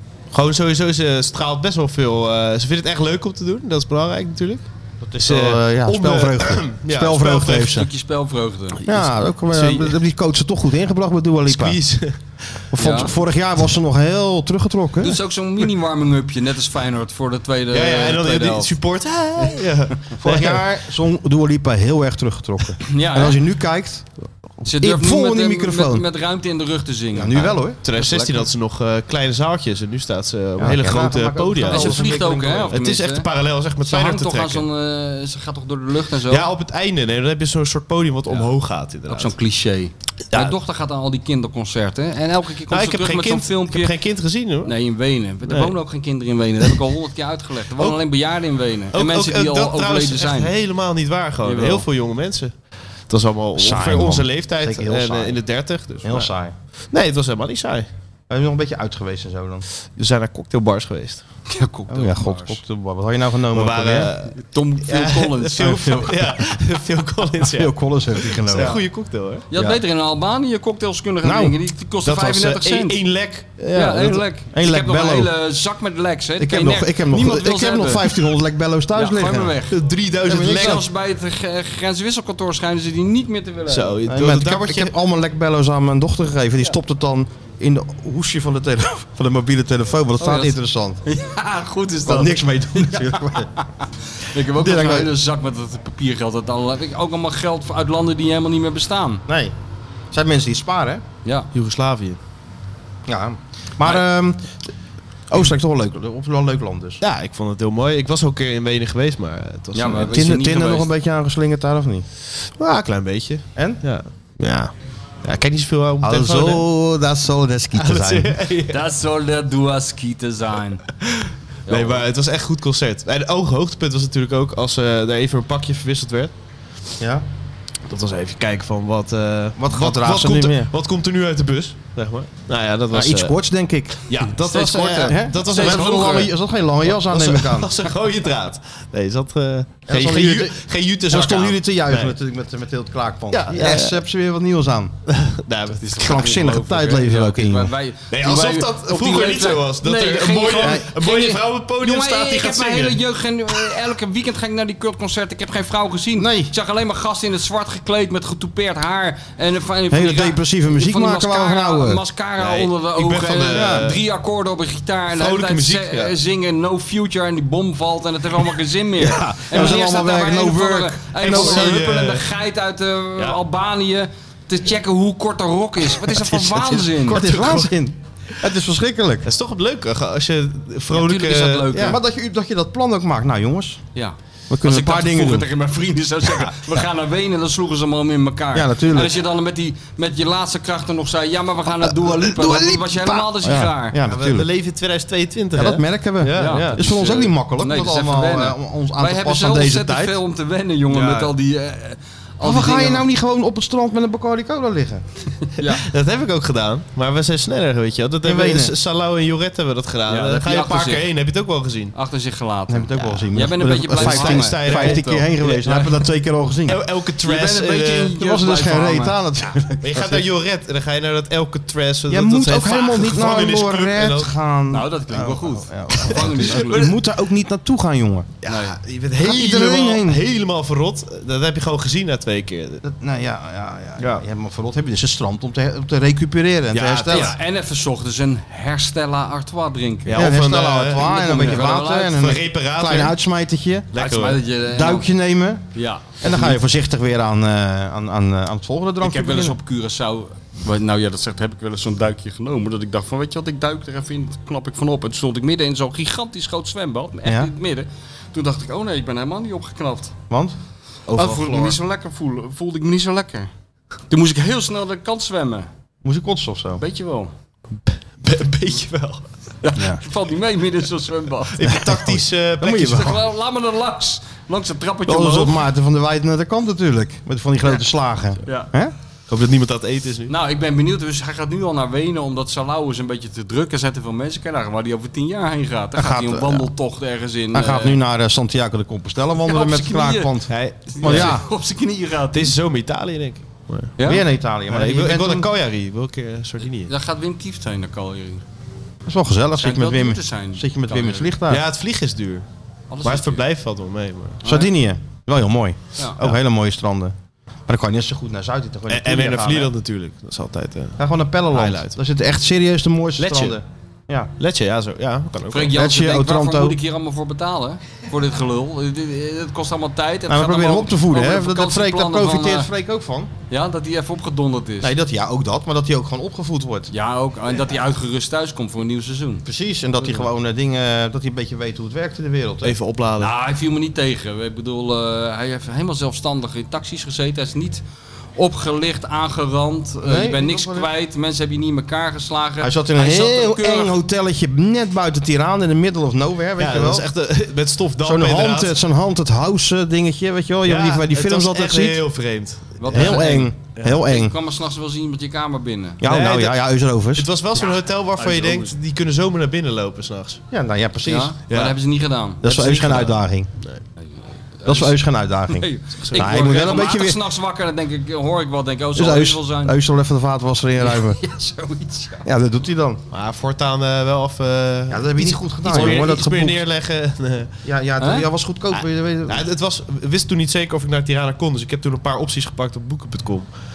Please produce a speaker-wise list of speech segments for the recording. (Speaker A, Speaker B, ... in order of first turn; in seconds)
Speaker A: 0.3-4.6, 5.2-7.8, 8.8-9.9, 11.5-12.7, 17.7-20.6, 27.8-32.1, 32.7-34.6, 36.3-39.3, 42.7-44.7, 45.5-45.7, 48.9-52.5, 53.1-56.3, 56.9-57.9, 60.0-61.2, 63.5-69.5, 72.0-74.2, 79.7-80.8, 83.7-84.9, 101.5-102.2, 107.0-110.2, 112.6-114.7, 115.2-116.6, 117.7-118.8, 121.1-126.3, 127.9-133.3, 134.1-136.3, 136.9-142.1, 143.3-144.0, 145.1-145.8, 148.1-153.0, 162.4-164.0, 165.1-166.1, 169.1-169.7, 171.2-172.3, 176.6-177.8, 179.2-181.9, 194.1-196.8, 200.9-201.3, 205.6-211.9, 213.9-215.9, 216.7-218.2, 219.8-224.3, 226.0-226.9, 228.4-232.8, 234.0-234.2, 236.7-237.3, 240.1-243.1, 243.9-244.4, 261.1-261.7, 268.2-269.2, 271.5-273.2, 279.3-280.3, 290.5-291.3, 292.3-293.9, 294.7-296.9, 301.5-302.4, 303.0-304.4, 308.9-311.0, 311.5-311.9, 313.2-313.6, 314.4-315.7, 332.6-333.3, 346.6-348.7, 350.6-353.2, 356.0-356.6, 357.1-360.4, 361.5-361.8, 366.0-366.6, 373.1-377.5, 378.8-383.5
Speaker B: 5.0-7.9, 8.8-11.8, 12.7-15.2, 20.2-24.1, 24.8-26.0, 27.1-27.8, 30.6-32.8, 53.5-55.4, 56.0-56.5, 58.3-59.6, 61.9-64.1, 65.6-66.4, 67.5-68.8, 71.2-71.6, 74.5-75.3, 76.4-79.6, 80.2-80.8, 84.1-91.0, 92.0-93.5, 94.5-95.1, 99.3-99.5, 100.1-101.0, 103.0-104.7, 105.3-107.0, 110.1-112.0, 113.5-113.8, 116.0-118.3, 127.0-127.2, 129.6-130.7, 132.9-137.7, 139.9-144.9, 145.9-147.7, 156.2-156.5, 159.9-162.0, 163.5-163.9, 169.4-171.8, 176.9-179.3, 181.7-183.8, 184.5-185.5, 188.5-189.1, 191.8-194.5, 195.5-200.2, 202.4-205.0, 208.2-208.7, 212.7-216.8, 218.2-220.2, 222.1-228.3, 229.2-230.2, 232.8-237.3, 240.1-243.9, 244.6-245.6, 246.2-249.6, 257.2-257.5, 260.3-260.5, 261.1-261.6, 266.0-266.8, 271.7-273.1, 275.1-278.9, 285.9-286.7, 287.5-291.4, 294.0-295.5, 299.1-301.6, 304.4-307.1, 307.7-309.7, 311.0-314.3, 315.7-316.8, 320.3-323.3, 324.8-326.9, 329.4-332.7, 340.0-340.9, 342.6-347.1, 348.0-352.0, 352.9-354.3, 356.0-357.3, 360.5-361.3, 362.4-363.5, 364.6-367.2, 368.9-371.2, 372.2-373.0, 374.9-376.6, 377.6-379.4
Speaker C: 7.6-8.8, 12.8-13.1, 15.0-18.7, 22.9-23.4, 24.6-28.5, 31.6-33.2, 33.8-36.5, 39.1-43.9, 44.6-50.5, 51.4-51.8, 61.5-62.6, 64.3-66.1, 69.5-73.0, 73.7-78.1, 78.9-79.8, 80.3-83.9, 90.2-99.2, 109.7-110.9, 118.7-120.8, 121.7-122.0, 134.1-136.3, 145.8-177.2, 180.9-182.0, 183.9-194.0, 196.3-203.1, 205.6-205.8, 210.1-211.1, 211.9-215.3, 217.2-219.1, 224.7-226.9, 228.4-228.8, 237.1-240.2, 241.0-242.2, 243.9-245.1, 245.7-246.6, 249.0-260.1, 261.1-263.5, 264.1-265.7, 266.8-267.3, 269.6-271.6, 272.6-275.6, 280.3-288.0, 289.4-290.3, 290.9-292.5, 294.0-294.2, 296.9-298.4, 299.6-301.3, 302.9-303.4, 304.4-304.7, 315.5-322.7, 323.5-324.9, 326.9-329.4, 333.2-337.8, 338.4-343.9, 352.8-356.0, 358.2-358.7, 361.1-363.1, 364.6-365.0, 365.5-369.7, 370.8-372.2, 378.0-378.2